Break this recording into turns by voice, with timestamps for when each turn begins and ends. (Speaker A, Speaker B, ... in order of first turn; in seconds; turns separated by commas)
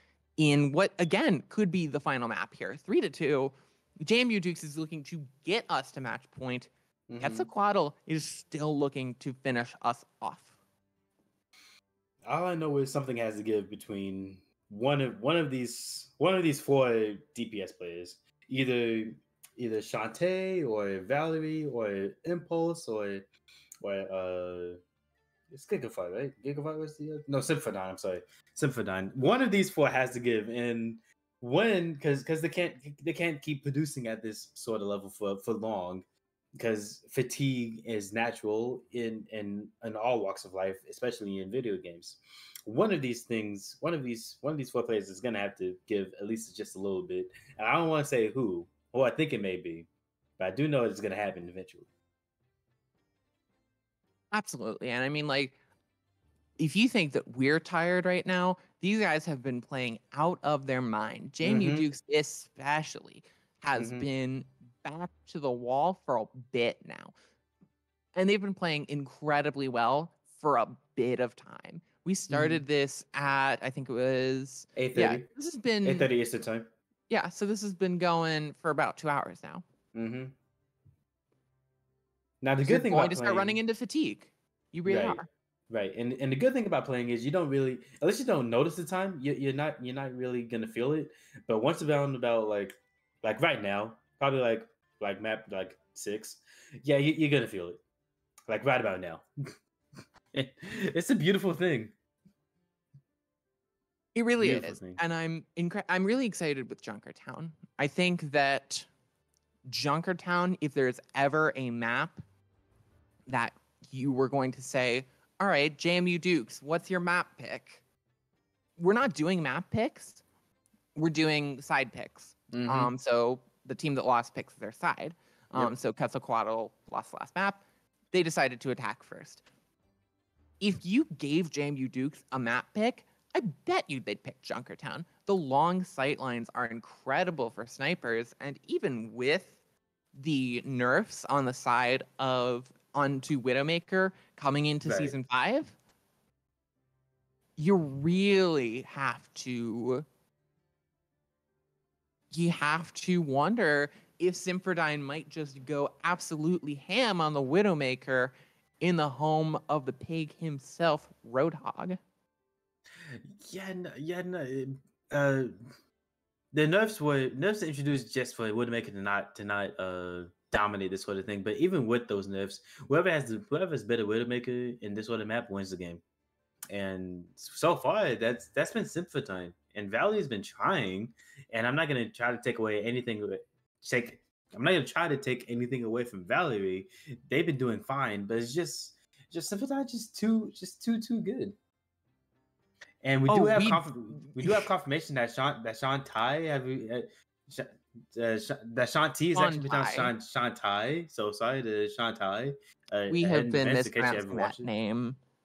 Speaker A: 0.4-10.5, Speaker B: 7.1-7.5, Speaker B: 12.2-23.2, Speaker B: 23.8-24.8, Speaker B: 25.5-51.9, Speaker A: 54.3-55.5, Speaker A: 56.6-67.1, Speaker B: 61.4-61.9, Speaker B: 63.8-64.1, Speaker A: 68.2-76.1, Speaker B: 72.3-72.6, Speaker B: 74.8-75.3, Speaker B: 75.8-76.7, Speaker A: 77.1-79.6, Speaker B: 79.9-80.3, Speaker B: 82.4-83.6, Speaker A: 82.6-85.3, Speaker B: 84.8-97.8, Speaker B: 98.5-99.2, Speaker B: 100.3-101.9, Speaker A: 104.1-108.9, Speaker B: 104.4-105.0, Speaker A: 109.7-112.2, Speaker A: 113.3-117.8, Speaker A: 118.8-120.2, Speaker A: 120.9-129.4, Speaker B: 122.5-122.9, Speaker A: 130.6-139.5, Speaker A: 140.1-145.7, Speaker B: 144.8-145.2, Speaker A: 147.6-150.1, Speaker A: 152.3-162.0, Speaker B: 163.2-165.5, Speaker B: 166.5-176.0, Speaker B: 176.7-191.6, Speaker B: 193.0-204.7, Speaker A: 193.3-194.6, Speaker A: 199.3-200.1, Speaker A: 203.1-205.2